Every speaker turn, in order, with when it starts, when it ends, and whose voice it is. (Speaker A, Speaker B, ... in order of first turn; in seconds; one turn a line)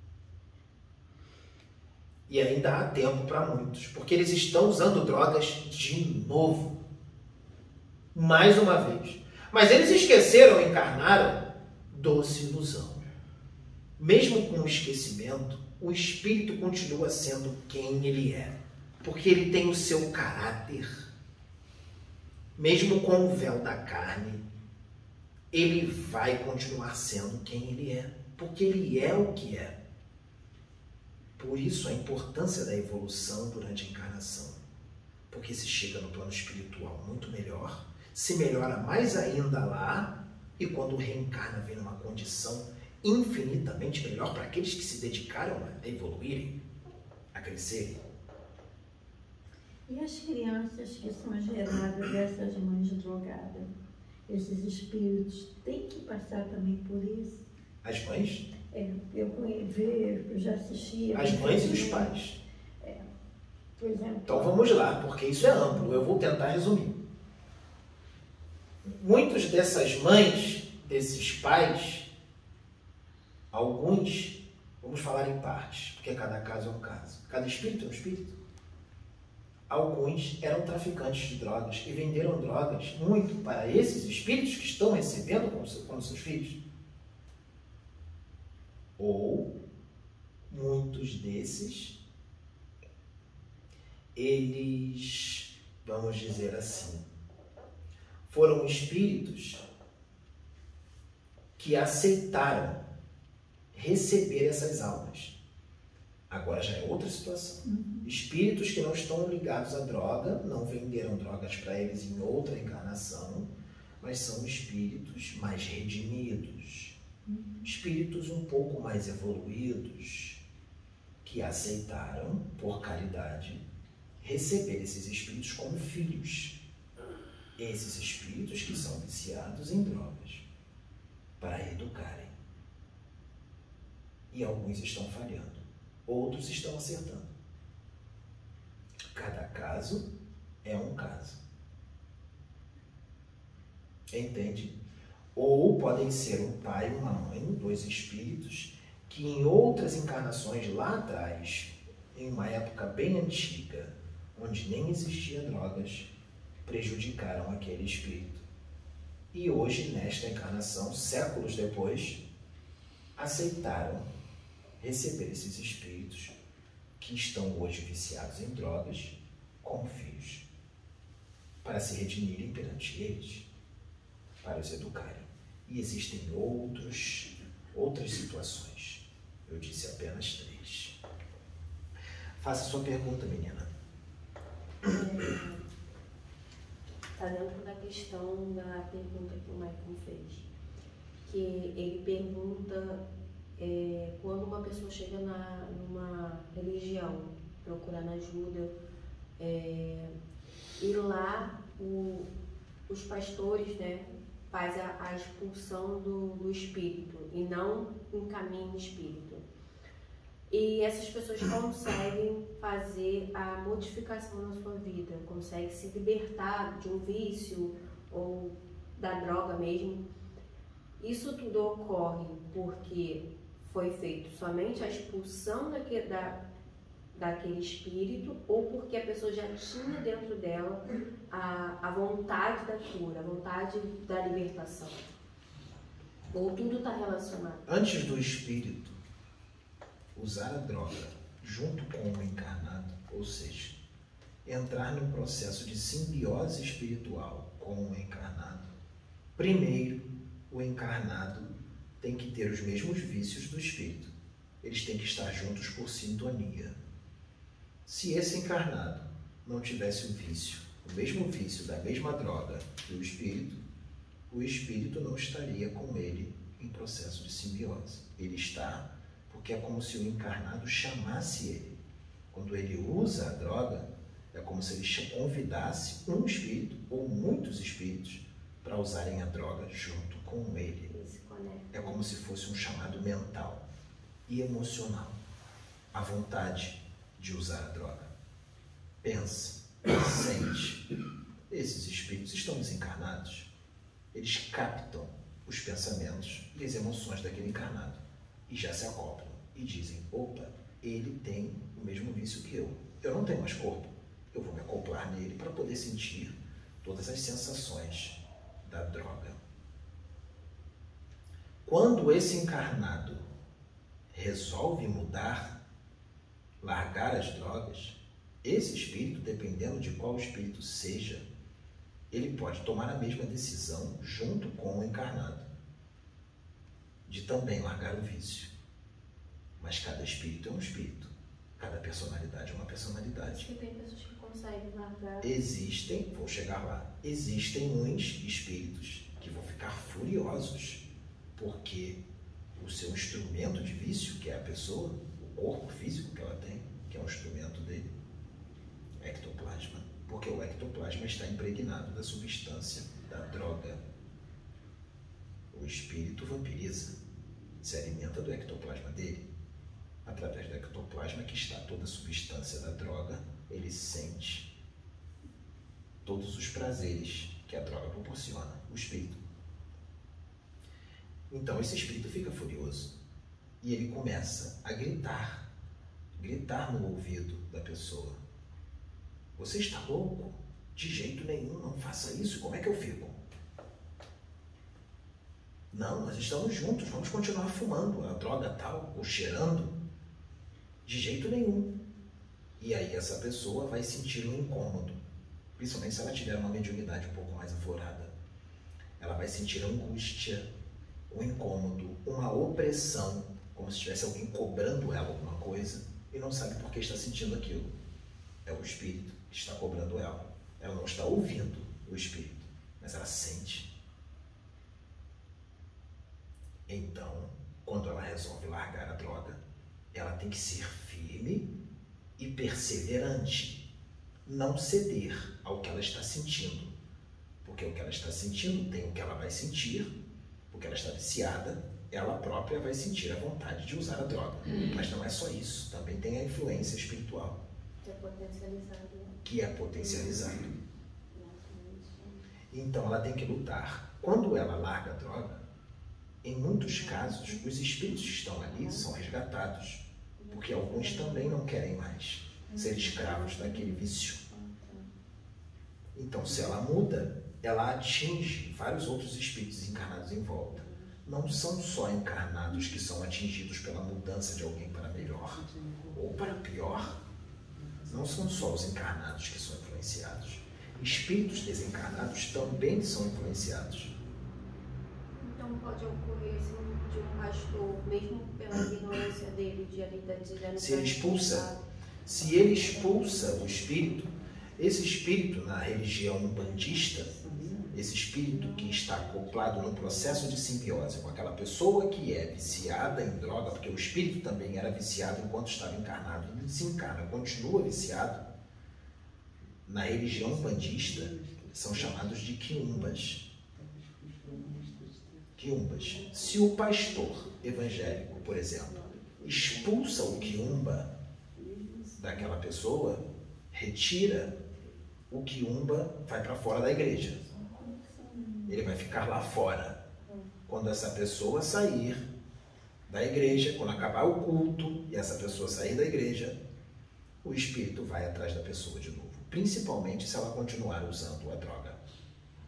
Speaker A: 2.3-6.8
Speaker A: 8.1-13.0
Speaker A: 14.0-21.1
Speaker A: 22.6-24.4
Speaker A: 25.5-29.7
Speaker A: 31.4-34.6
Speaker A: 35.3-46.6
Speaker A: 47.3-48.0
Speaker B: 49.9-53.7
Speaker B: 54.3-57.4
Speaker A: 57.8-58.5
Speaker B: 58.7-62.1
Speaker A: 61.1-62.4
Speaker B: 62.8-63.0
Speaker B: 63.8-64.6
Speaker A: 64.2-67.0
Speaker A: 68.8-72.1
Speaker A: 73.5-78.3
Speaker A: 79.7-86.6
Speaker A: 89.0-89.5
Speaker A: 90.5-92.0
Speaker A: 94.2-97.0
Speaker A: 98.3-99.6
Speaker A: 101.6-102.8
Speaker A: 103.7-105.3
Speaker A: 106.3-113.5
Speaker B: 107.6-108.1
Speaker A: 114.0-116.9
Speaker B: 117.2-117.7
Speaker A: 117.6-120.4
Speaker A: 121.2-123.6
Speaker A: 124.2-126.6
Speaker A: 127.6-130.4
Speaker A: 131.4-132.3
Speaker A: 134.3-137.3
Speaker A: 139.1-140.0
Speaker A: 140.6-141.4
Speaker A: 144.1-144.7
Speaker A: 145.3-156.1
Speaker A: 156.7-158.4
Speaker A: 159.3-162.2
Speaker A: 163.2-164.1
Speaker A: 164.8-166.3
Speaker A: 167.0-170.4
Speaker A: 171.6-173.4
Speaker A: 174.4-180.9
Speaker A: 182.4-183.7
Speaker C: 184.8-185.6
Speaker C: 187.2-190.5
Speaker C: 191.2-193.0
Speaker C: 193.6-198.7
Speaker C: 199.4-200.1
Speaker C: 200.8-202.3
Speaker C: 202.9-209.4
Speaker C: 210.5-220.1
Speaker C: 221.0-226.4
Speaker C: 227.1-235.0
Speaker C: 236.3-237.7
Speaker A: 237.7-238.9
Speaker A: 240.1-243.8
Speaker A: 244.4-248.7
Speaker A: 249.3-254.1
Speaker A: 254.6-256.7
Speaker A: 257.9-263.6
Speaker A: 264.3-271.7
Speaker A: 272.3-280.9
Speaker C: 280.9-282.0
Speaker A: 281.7-283.6
Speaker A: 284.3-285.2
Speaker A: 285.9-288.1
Speaker A: 289.0-290.8
Speaker A: 291.5-293.5
Speaker A: 294.1-309.4
Speaker A: 311.6-313.2
Speaker A: 314.1-315.6
Speaker A: 316.6-321.2
Speaker A: 322.1-325.5
Speaker A: 327.1-328.5
Speaker A: 329.6-333.5
Speaker C: 333.3-335.3
Speaker A: 335.2-340.8
Speaker A: 341.4-342.0
Speaker A: 342.6-347.9
Speaker A: 349.0-353.8
Speaker A: 355.5-356.9
Speaker A: 357.6-359.2
Speaker A: 360.0-364.5
Speaker A: 366.0-369.2
Speaker A: 371.3-372.9
Speaker A: 373.6-375.4
Speaker A: 376.1-378.2
Speaker A: 379.4-383.2
Speaker A: 385.7-389.7
Speaker A: 390.8-391.7
Speaker A: 392.6-395.0
Speaker A: 395.6-398.1
Speaker A: 399.0-400.4
Speaker A: 401.1-407.7
Speaker A: 408.4-413.7
Speaker A: 416.7-419.4
Speaker A: 419.9-421.5
Speaker A: 422.2-423.6
Speaker A: 424.2-426.7
Speaker A: 427.4-429.9
Speaker A: 430.5-437.4
Speaker C: 437.8-439.1
Speaker A: 439.2-440.5
Speaker C: 441.1-442.1
Speaker A: 442.5-445.4
Speaker A: 446.2-454.2
Speaker C: 450.2-450.6
Speaker C: 452.6-453.6
Speaker C: 454.3-454.9
Speaker A: 455.9-467.0
Speaker A: 467.9-473.9
Speaker C: 475.2-481.6
Speaker A: 480.6-481.5
Speaker A: 482.1-487.1
Speaker C: 486.8-487.3
Speaker A: 487.7-498.2
Speaker A: 499.6-503.2
Speaker A: 505.3-510.9
Speaker A: 512.0-513.0
Speaker A: 513.5-514.3
Speaker A: 515.1-517.2
Speaker B: 517.3-518.4
Speaker A: 518.5-519.8
Speaker A: 520.5-522.0
Speaker A: 522.9-526.4
Speaker A: 527.2-531.8